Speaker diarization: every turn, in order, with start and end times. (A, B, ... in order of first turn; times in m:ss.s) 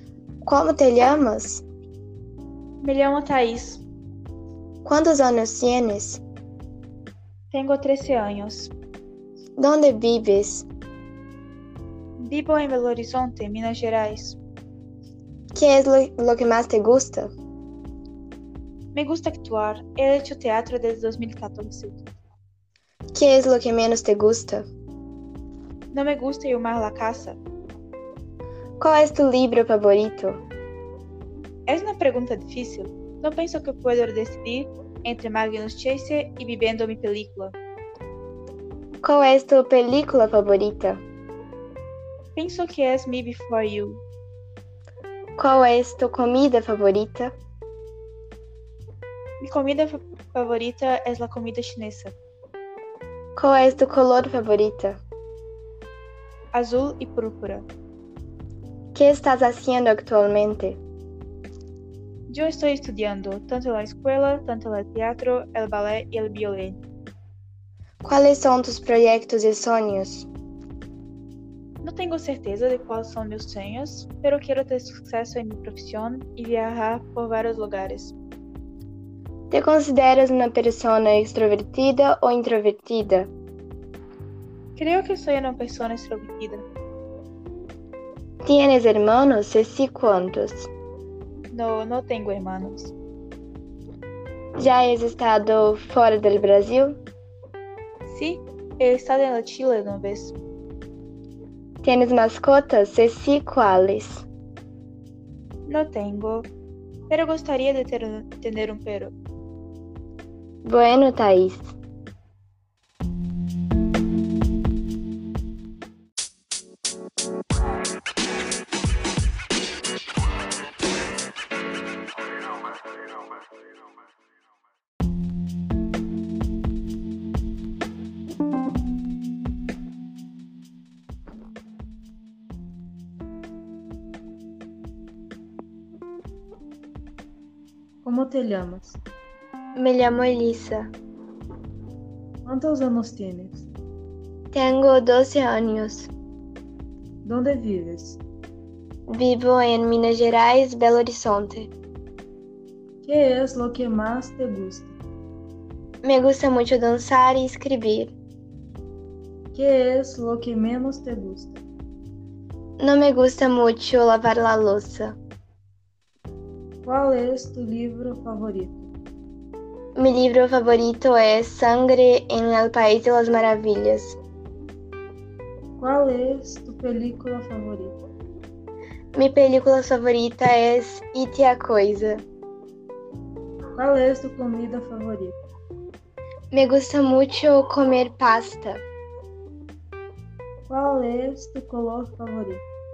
0:00.4-0:01.6 A
0:02.8-0:03.8 B
0:04.8-0:06.2 A
0:07.5-0:08.7 B
0:09.6-0:10.6 A
0:12.2-0:14.4 B
0:15.5-0:17.3 A
0:18.9-0:22.0 B
0:23.1-0:24.6 A
0:25.9-0:27.4 B
0:28.8-0:30.4 A
0:31.7-0:37.5 B
0:39.0-0:41.0 A
0:42.3-0:44.0 B
0:45.4-0:47.3 A
0:49.4-0:52.1 B
0:53.4-0:55.0 A
0:56.5-0:57.7 B
0:58.9-1:00.8 A
1:02.3-1:06.8 B
1:08.0-1:10.3 A
1:11.8-1:18.1 B
1:19.5-1:23.3 A
1:24.8-1:26.6 B
1:28.4-1:30.7 A
1:31.5-1:32.9 B
1:34.6-1:37.0 A
1:38.0-1:40.4 B
1:41.8-1:44.2 A
1:45.7-1:46.5 B
1:47.1-1:49.1 B
1:50.6-1:51.7 A
2:18.0-2:19.0 C
2:19.8-2:20.9 A
2:22.4-2:23.6 C
2:24.5-2:26.1 A
2:27.2-2:28.2 C
2:29.1-2:31.7 A
2:33.0-2:34.9 C
2:36.0-2:38.1 A
2:39.5-2:41.6 C
2:42.8-2:45.2 A
2:46.8-2:48.9 C
2:50.0-2:54.2 A
2:55.8-2:58.0 C
2:59.1-3:02.2 A
3:03.8-3:05.4 C
3:06.5-3:08.8 A
3:10.7-3:12.6 C